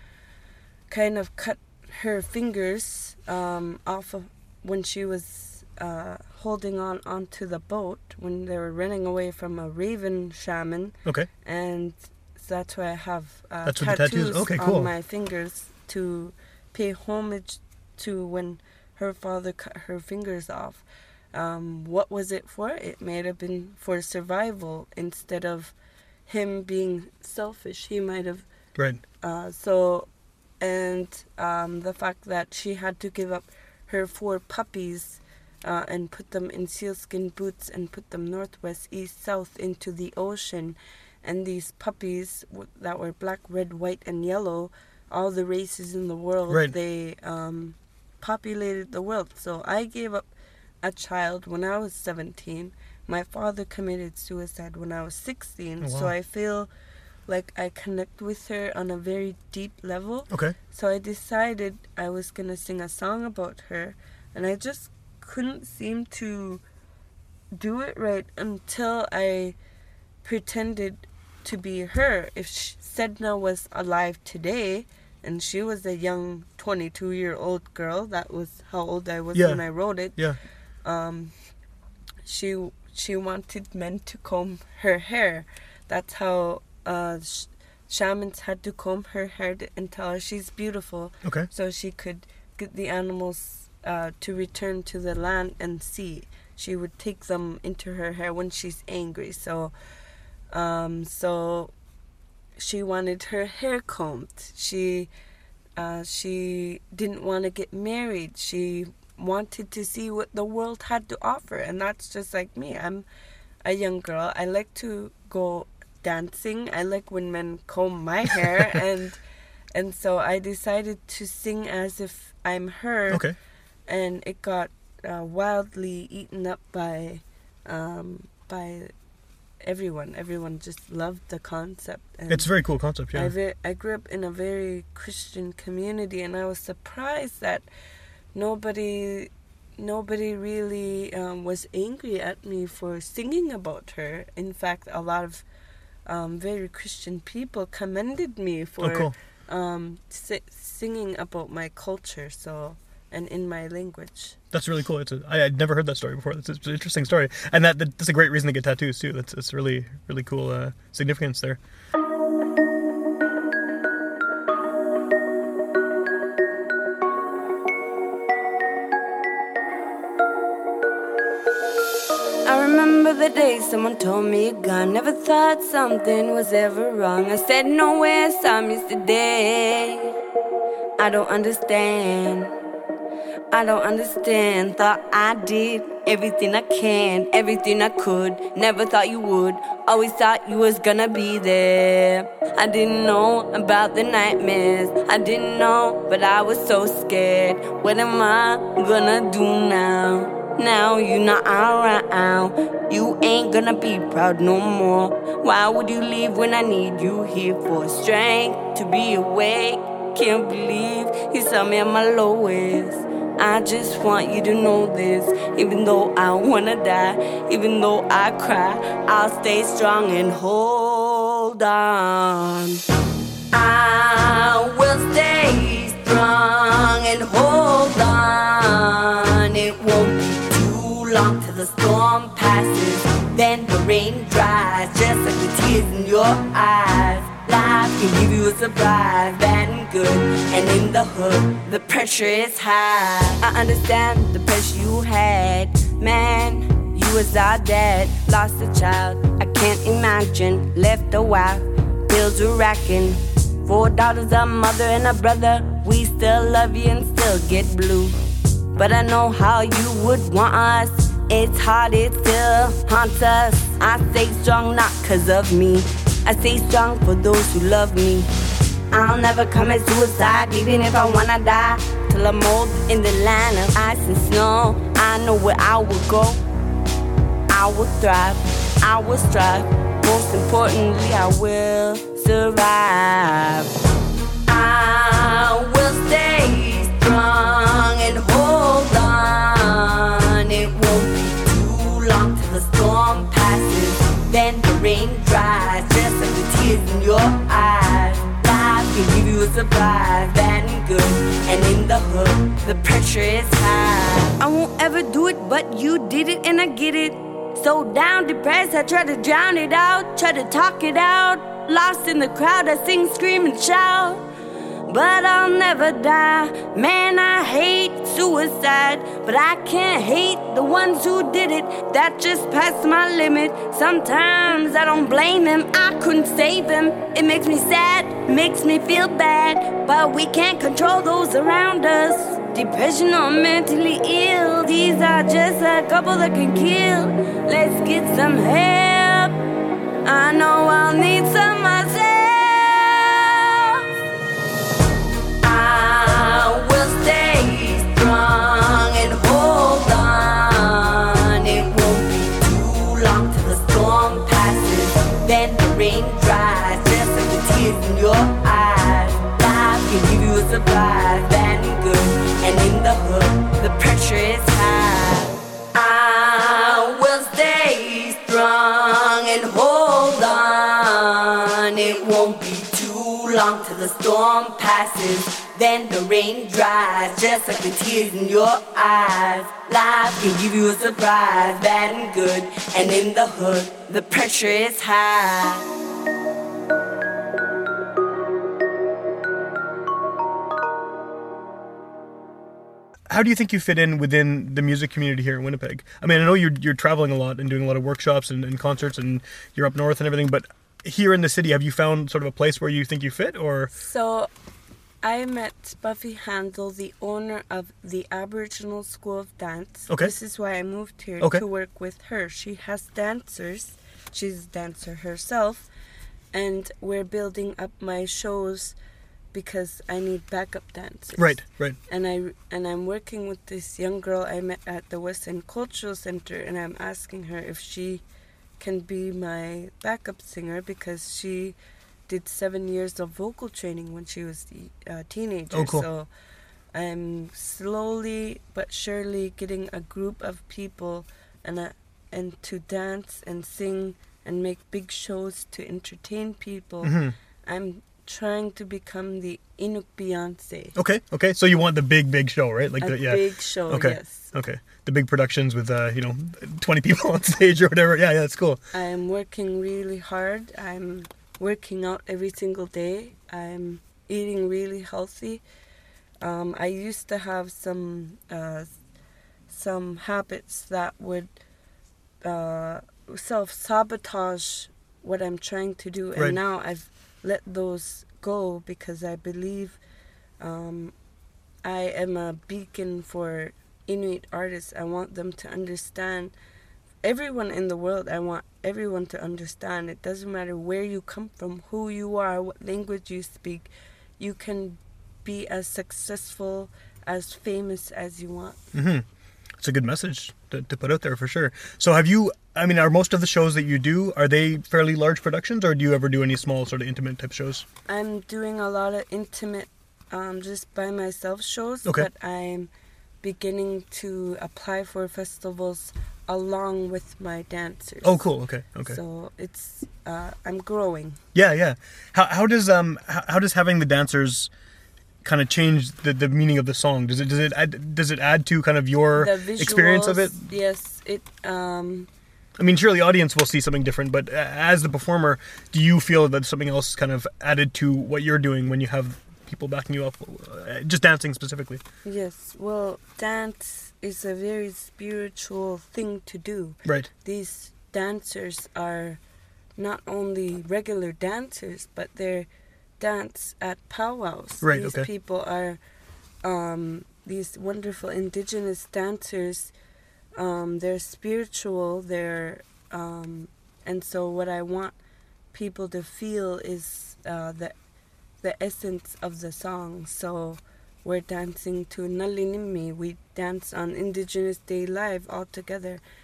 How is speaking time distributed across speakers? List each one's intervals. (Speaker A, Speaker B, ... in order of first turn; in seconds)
Speaker A: 0.9-25.7, 26.3-28.4, 29.2-30.1, 30.6-50.3, 50.8-56.7, 57.3-66.6, 67.5-69.5, 70.2-80.2, 80.8-81.3, 82.2-99.7, 100.5-101.7, 102.6-105.1, 105.8-113.0, 113.6-119.2, 119.7-123.2, 123.9-128.9, 129.6-132.5, 133.1-137.7, 138.3-145.4, 146.1-154.4, 403.7-404.3, 405.0-415.7, 416.3-418.7, 419.3-428.0, 428.6-431.6, 432.1-436.1, 436.7-450.8, 452.8-454.3, 458.7-465.4, 466.2-468.7, 469.5-471.3, 472.2-479.8, 480.4-480.9, 481.6-486.3, 487.0-498.6, 507.9-512.7, 513.2-518.2, 518.8-521.2, 529.1-532.1, 542.0-549.2, 549.8-552.5, 553.0-555.8, 556.4-559.7, 560.4-565.0, 565.5-567.7, 568.4-576.0
Speaker B: 13.6-14.9, 55.8-56.1, 79.3-79.6, 123.1-123.3, 132.3-133.3, 148.8-149.1, 154.5-161.6, 393.1-403.7, 421.2-421.8, 435.5-435.9, 446.8-447.1, 450.8-458.6, 498.7-499.0, 499.6-507.6, 518.0-519.0, 521.3-524.5, 525.2-530.4, 532.6-541.8, 554.6-555.1
Speaker C: 172.4-180.1, 181.0-182.5, 183.5-222.8, 223.5-258.2, 258.7-268.3, 268.9-276.4, 277.5-283.7, 284.5-314.2, 314.9-339.4, 340.0-343.9, 345.4-385.7